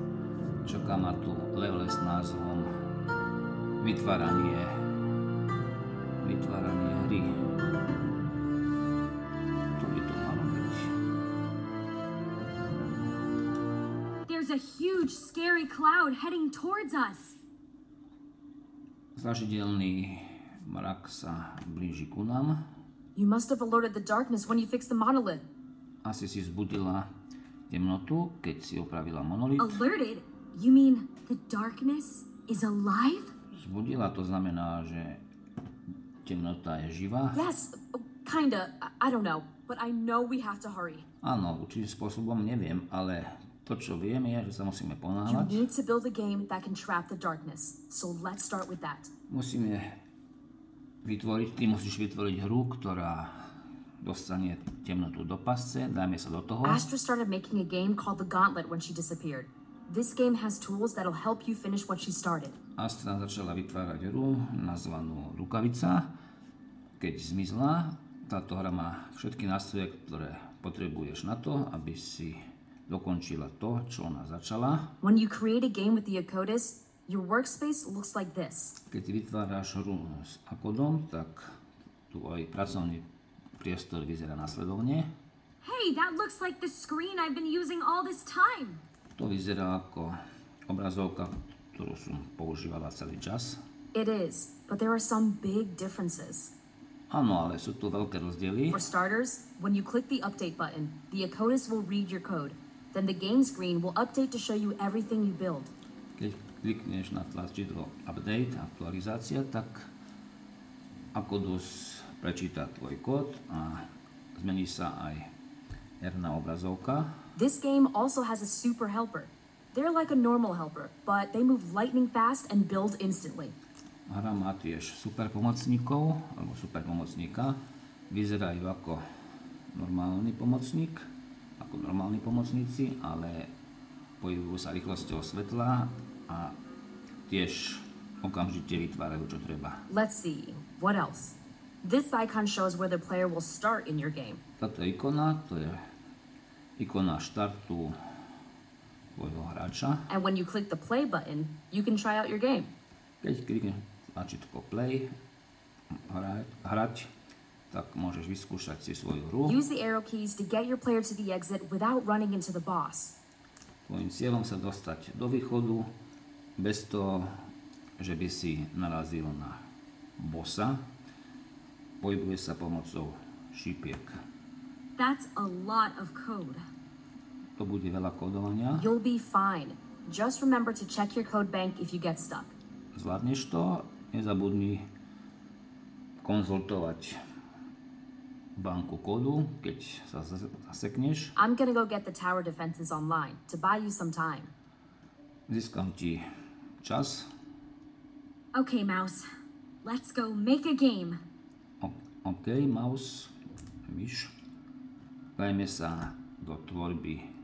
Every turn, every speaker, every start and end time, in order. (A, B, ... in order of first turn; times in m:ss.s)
0:00.6-0:02.7 A
0:03.8-0:04.8 A
0:06.2-0:07.3 A
0:09.8-0:10.9 A
0:14.3-0:17.4 B
0:19.2-0:22.6 A
0:23.2-0:25.4 B
0:26.0-0:27.1 A
0:27.7-0:29.8 A
0:29.6-0:33.3 B
0:33.5-0:35.2 A
0:36.2-0:37.4 A
0:37.3-0:41.0 B
0:41.2-0:45.6 A
0:45.2-0:49.1 B
0:49.3-0:49.9 A
0:51.0-0:53.4 A
0:54.0-0:56.8 A
0:56.6-1:02.6 B
1:02.8-1:06.1 A
1:07.0-1:14.9 A
1:15.0-1:18.8 B
1:18.9-1:21.5 A
1:22.1-1:23.1 A
1:23.6-1:25.1 A
1:25.6-1:28.8 B
1:29.1-1:33.6 A
1:33.9-1:36.5 B
1:37.1-1:38.8 A
1:38.7-1:45.7 B
1:46.2-1:49.9 A
1:51.1-1:55.3 A
1:56.0-1:57.1 A
1:57.4-2:03.6 B
2:04.1-2:07.6 A
2:08.1-2:09.0 A
2:09.7-2:11.0 A
2:11.6-2:13.5 A
2:14.2-2:16.6 A
2:17.3-2:19.8 A
2:19.9-2:24.4 B
2:24.6-2:25.8 A
2:26.8-2:28.0 A
2:29.1-2:30.1 A
2:30.1-2:32.7 B
2:33.2-2:35.1 A
2:35.9-2:37.1 A
2:37.7-2:39.6 A
2:39.4-2:43.2 B
2:43.8-2:45.9 A
2:46.6-2:47.3 A
2:48.0-2:49.6 A
2:50.2-2:50.8 A
2:52.0-2:54.1 A
2:55.0-2:56.6 B
2:57.6-2:58.9 A
2:58.7-3:02.6 B
3:02.9-3:04.8 A
3:06.2-3:07.2 A
3:08.6-3:11.3 A
3:11.4-3:14.5 B
3:15.5-3:16.2 A
3:16.8-3:17.3 A
3:18.5-3:19.3 B
3:19.8-3:21.2 B
3:21.8-3:23.3 A
3:23.9-3:24.3 A
3:25.4-3:27.2 A